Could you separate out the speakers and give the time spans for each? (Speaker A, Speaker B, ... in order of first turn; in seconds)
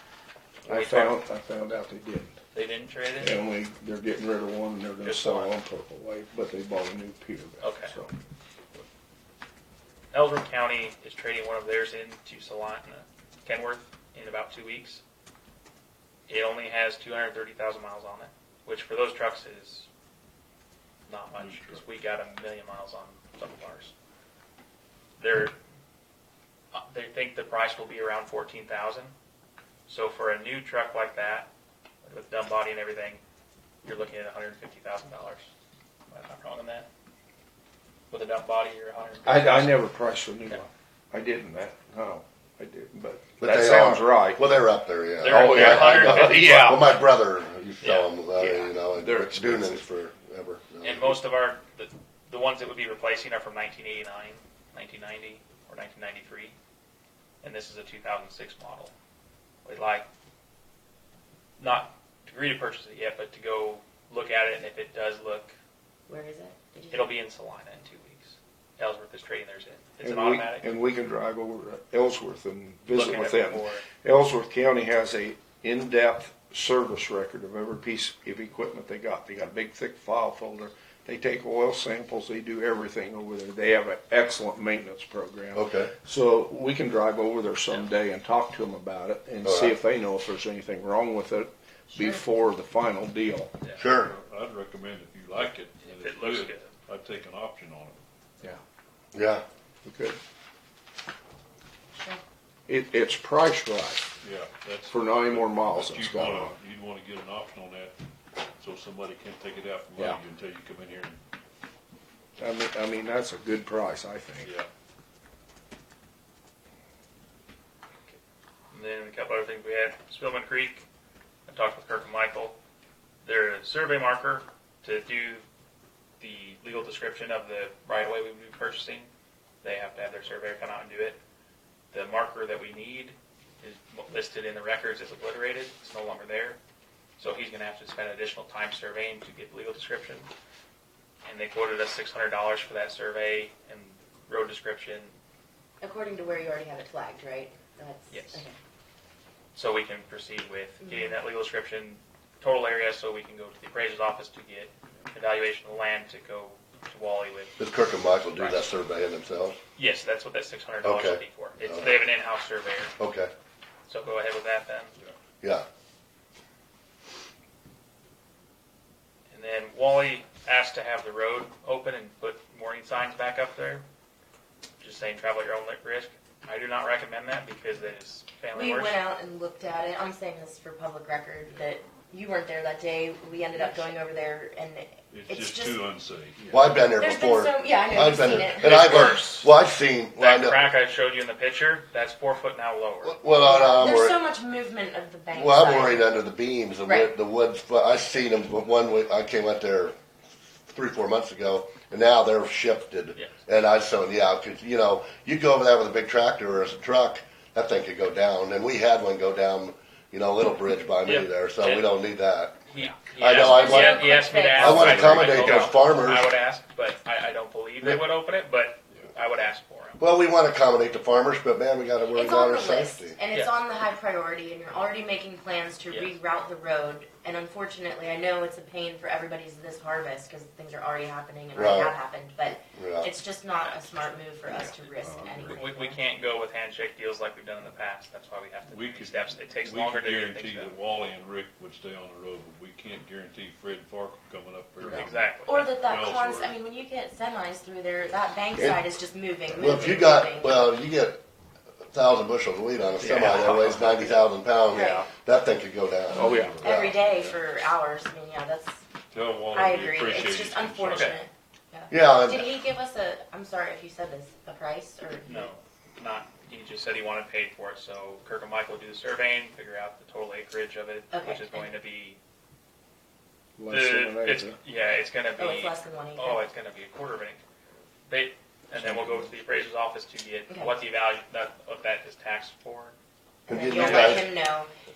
Speaker A: 0.7-2.4, 3.2-8.1, 39.2-44.5, 45.2-46.9, 48.4-49.8, 70.0-93.5, 99.8-100.2, 102.7-104.1, 104.9-106.6, 112.4-114.5, 234.6-235.6, 248.6-248.8, 253.0-254.1, 256.1-256.6, 273.6-274.6, 278.7-279.3
Speaker B: 0.7-1.2, 2.5-3.4, 5.0-5.5, 7.6-7.9, 10.1-15.0, 16.3-19.9, 21.1-23.9, 25.2-25.5, 26.7-29.1, 29.9-31.5, 32.0-33.2, 33.8-35.5, 36.1-36.9, 38.1-39.8, 45.2-47.0, 47.8-48.1, 50.8-56.5, 57.4-58.9, 59.6-60.1, 61.6-65.5, 66.9-70.7, 72.9-73.8, 95.8-96.7, 118.7-120.8, 121.5-122.6, 123.2-125.4, 126.2-129.1, 129.6-131.2, 131.9-136.6, 137.2-140.3, 141.2-145.2, 148.1-148.4, 149.5-157.6, 158.3-158.7, 159.8-162.9, 163.9-164.9, 169.3-173.8, 174.8-178.9, 188.6-189.5, 190.2-193.2, 211.0-211.8, 212.7-220.0, 233.6-234.1, 235.5-240.7, 244.9-245.7, 260.9-261.2, 265.2-272.2, 273.7-277.4, 278.1-282.9, 283.7-284.3
Speaker C: 21.4-21.8, 93.9-98.0, 104.2-108.0, 108.6-111.2, 114.4-114.7, 185.1-186.4, 238.7-246.6, 249.6-249.9, 256.1-257.4, 259.1-261.2
Speaker D: 43.4-51.2, 85.5-85.9, 89.4-89.8, 93.8-94.1, 99.1-99.4, 157.6-159.6, 160.8-162.0, 163.0-163.3, 186.5-190.7, 193.0-194.2, 195.3-199.9, 200.7-212.6, 213.2-216.3, 220.0-223.2, 231.5-232.0, 232.7-233.1, 249.6-251.2, 251.9-256.9, 261.9-262.5, 283.5-284.3
Speaker E: 66.1-67.1, 91.9-92.2, 101.9-102.2, 145.8-148.6, 150.8-151.1, 178.5-185.8, 187.0-189.2, 193.3-196.1, 196.8-197.1, 213.4-215.2, 222.1-236.0, 245.4-250.7, 254.7-255.1, 256.6-258.8, 259.5-265.5, 271.1-271.7, 275.4-276.4, 283.5-284.7